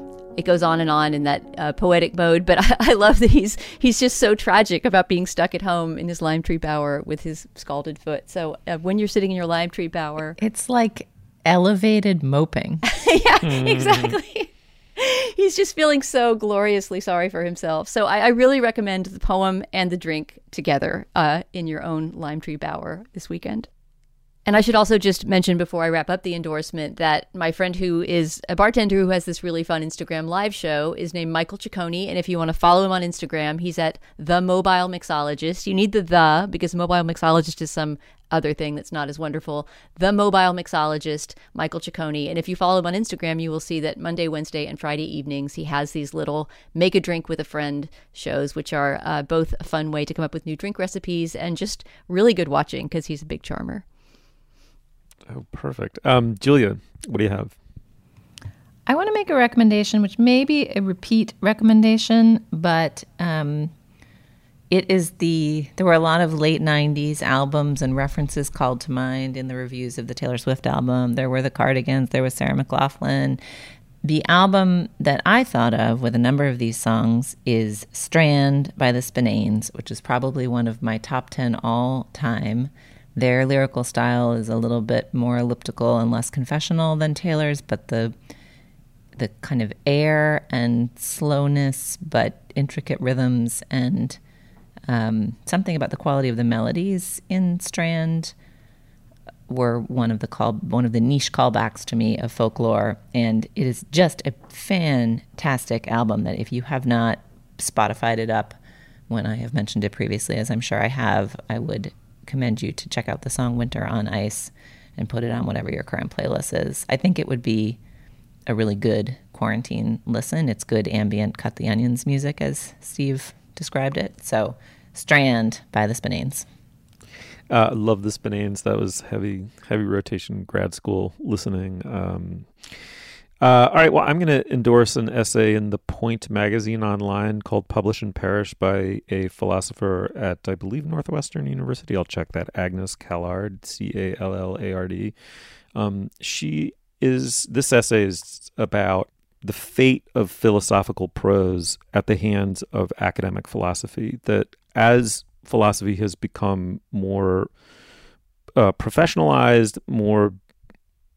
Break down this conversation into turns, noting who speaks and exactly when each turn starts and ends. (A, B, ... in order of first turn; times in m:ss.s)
0:00.4-0:10.4 A
0:10.4-0:12.8 B
0:12.9-0:23.7 A
0:13.4-0:14.1 C
0:24.4-0:53.8 A
0:55.3-0:57.5 C
0:58.9-1:03.7 B
1:04.7-1:13.4 B
1:14.0-1:28.1 B
1:29.2-1:34.2 B
1:34.9-1:38.3 B
1:39.5-1:48.6 B
1:49.1-1:57.8 B
1:58.5-2:06.4 B
2:07.5-2:12.7 C
2:13.4-2:25.1 C
2:25.7-2:37.5 C
2:38.6-2:40.4 C